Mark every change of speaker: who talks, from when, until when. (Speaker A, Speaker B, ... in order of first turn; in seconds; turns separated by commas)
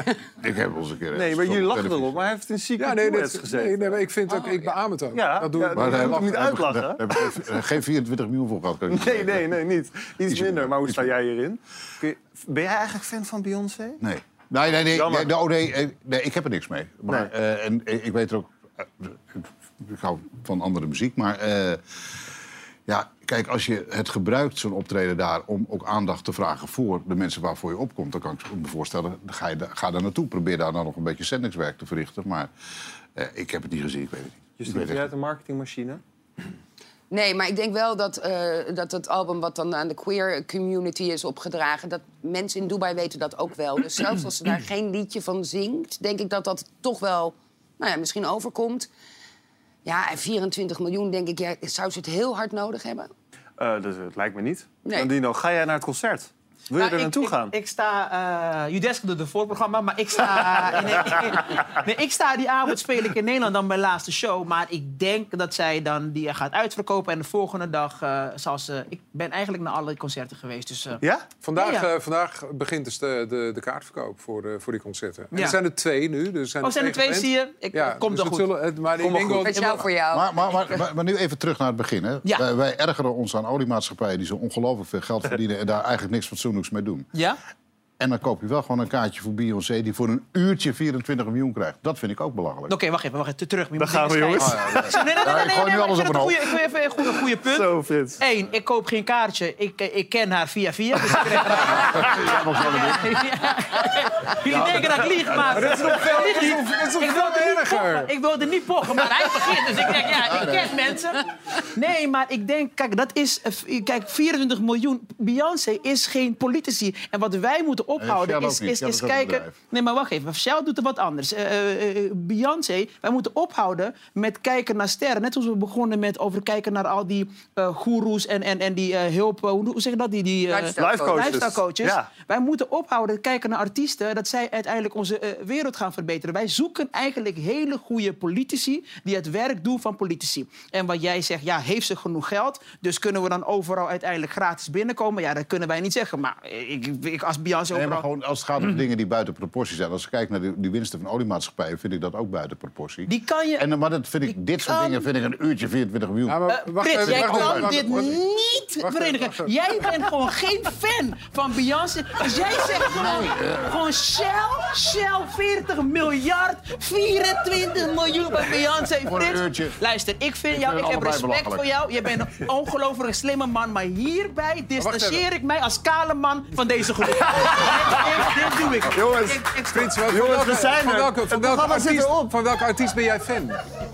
Speaker A: 0.4-2.3, Speaker B: 1.1-4.0, Speaker C: 2.8-6.5, Speaker B: 5.1-7.3, Speaker A: 5.8-9.5, Speaker B: 8.9-14.0, Speaker A: 10.3-11.1, Speaker A: 14.0-21.8, Speaker B: 14.9-15.3, Speaker A: 22.9-32.5, Speaker A: 33.1-35.1, Speaker B: 34.6-36.0, Speaker D: 37.1-48.9, Speaker D: 49.9-53.1, Speaker B: 53.6-57.5, Speaker E: 56.8-71.0, Speaker B: 71.0-71.3, Speaker C: 71.4-79.8, Speaker E: 71.6-71.9, Speaker E: 75.3-75.6, Speaker E: 76.6-78.5, Speaker B: 79.0-79.6, Speaker D: 79.4-80.8, Speaker A: 80.1-87.1, Speaker E: 87.1-87.4, Speaker A: 88.0-92.7, Speaker E: 92.7-148.1, Speaker B: 93.8-95.0, Speaker A: 94.4-96.6, Speaker B: 97.4-98.2, Speaker A: 101.5-103.3, Speaker A: 104.5-105.4, Speaker C: 105.5-108.1, Speaker A: 110.0-111.0, Speaker A: 118.0-119.6, Speaker D: 130.5-131.4, Speaker B: 130.8-132.1, Speaker A: 147.7-158.2, Speaker E: 153.1-153.7, Speaker E: 154.3-155.1, Speaker C: 156.3-158.2, Speaker E: 156.5-180.0, Speaker C: 158.8-159.8, Speaker A: 162.9-163.7, Speaker A: 169.0-169.8, Speaker A: 170.5-171.7, Speaker C: 174.8-175.2, Speaker B: 177.7-178.0, Speaker B: 178.9-179.5, Speaker C: 179.7-183.6, Speaker B: 180.0-182.3